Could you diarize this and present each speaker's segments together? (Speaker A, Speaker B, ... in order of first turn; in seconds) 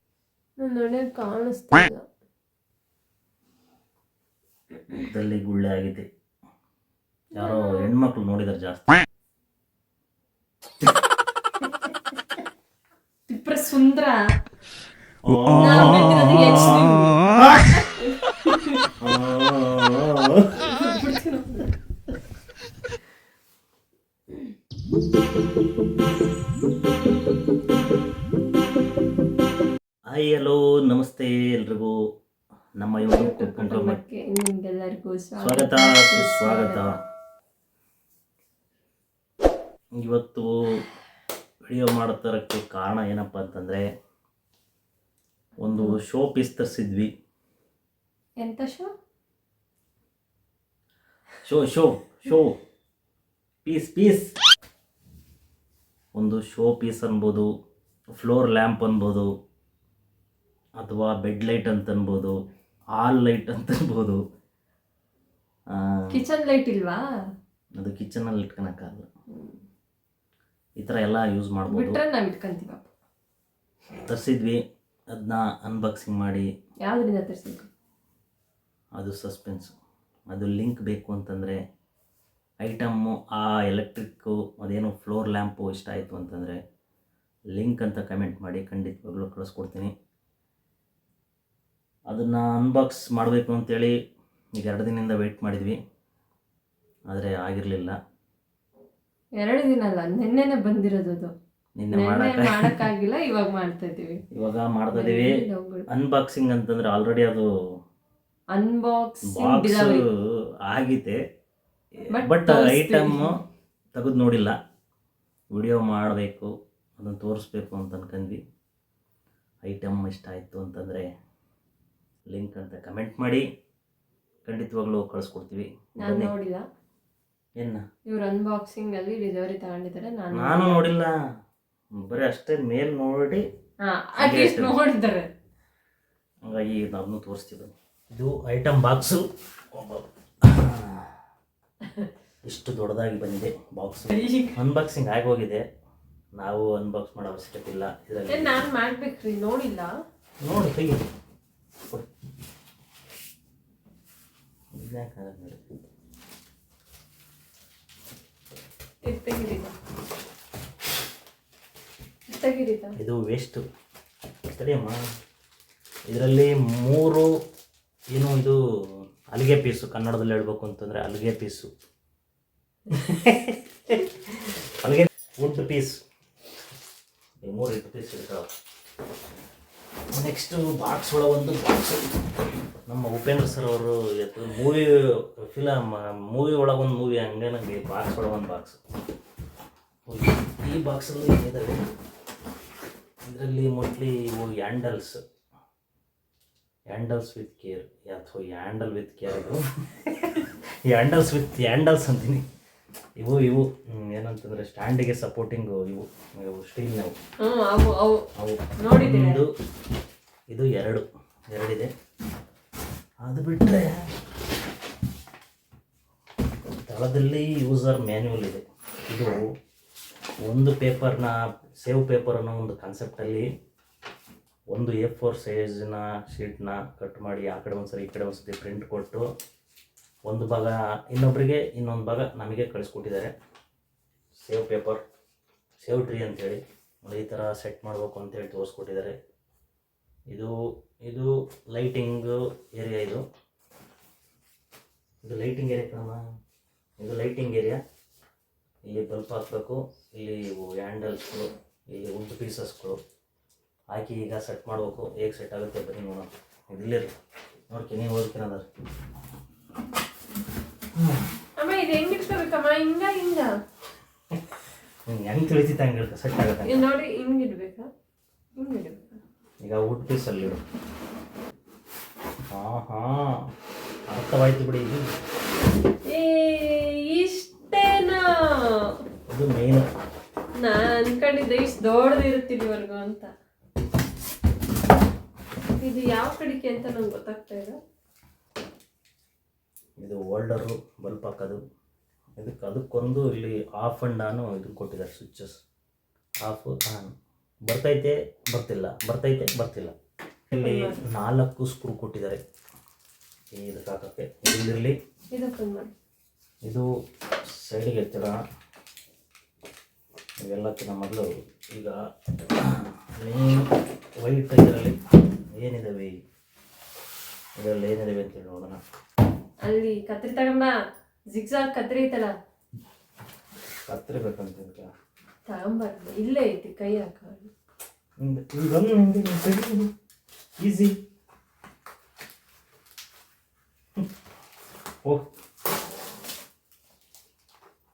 Speaker A: 0.6-2.0, 7.3-7.9, 13.3-14.2, 15.6-18.9, 20.6-21.7, 33.0-37.0, 48.4-48.9, 66.1-67.0, 69.3-69.6, 71.7-72.9, 76.8-77.7, 99.4-101.3, 101.9-104.2, 104.9-105.9, 108.5-110.0, 112.1-113.4, 126.0-126.6, 128.1-130.9, 133.9-135.3, 144.1-144.6, 148.3-149.9, 159.1-159.7, 162.3-162.9, 207.4-208.2, 208.8-209.4, 261.6-263.5, 266.6-267.9, 268.6-269.2, 276.1-278.9, 280.6-283.3, 285.8-287.8, 300.6-301.0, 305.3-305.9, 319.6-320.7, 321.3-322.3, 325.5-327.5
Speaker B: 5.0-6.0, 7.4-9.0, 15.2-17.6, 19.0-20.8, 30.1-31.9, 32.8-34.0, 35.4-36.9, 40.0-40.8, 41.7-43.9, 45.6-47.1, 51.5-52.5, 53.6-54.3, 56.1-57.5, 58.2-59.3, 60.8-62.4, 63.0-64.2, 65.7-66.0, 67.8-69.1, 70.8-72.0, 74.0-74.6, 75.2-76.5, 79.0-79.7, 80.3-81.6, 82.6-86.6, 87.5-89.9, 92.1-94.0, 94.6-95.8, 97.1-98.0, 101.8-102.8, 104.3-107.5, 109.2-110.0, 110.7-111.2, 112.0-113.3, 114.0-114.5, 115.5-118.4, 119.7-121.1, 122.3-123.4, 124.5-126.3, 127.6-127.8, 130.3-131.1, 132.0-133.4, 134.2-134.8, 136.4-141.1, 142.4-145.6, 146.3-148.6, 150.4-151.1, 154.8-155.6, 163.0-163.6, 164.5-165.0, 166.1-167.3, 168.1-168.6, 169.3-171.7, 172.9-175.9, 177.4-178.5, 180.1-182.2, 182.9-188.8, 190.1-191.8, 193.2-195.2, 196.9-202.4, 203.2-207.2, 208.4-209.5, 210.5-211.9, 213.2-214.1, 216.9-219.4, 220.4-223.5, 224.7-229.3, 230.3-233.3, 234.4-235.0, 235.8-239.2, 241.1-243.2, 245.2-246.2, 247.0-247.8, 248.9-253.0, 253.9-257.1, 257.7-258.7, 260.9-261.3, 265.1-266.9, 269.6-270.6, 272.5-273.4, 274.1-275.0, 279.3-279.9, 290.0-291.6, 292.4-295.6, 296.4-297.1, 297.7-299.9, 300.5-302.4, 303.6-304.9, 307.6-308.4, 310.4-312.0, 312.6-313.6, 314.2-315.0, 315.6-316.1, 317.6-318.8, 323.9-324.9, 328.2-329.9, 330.6-330.9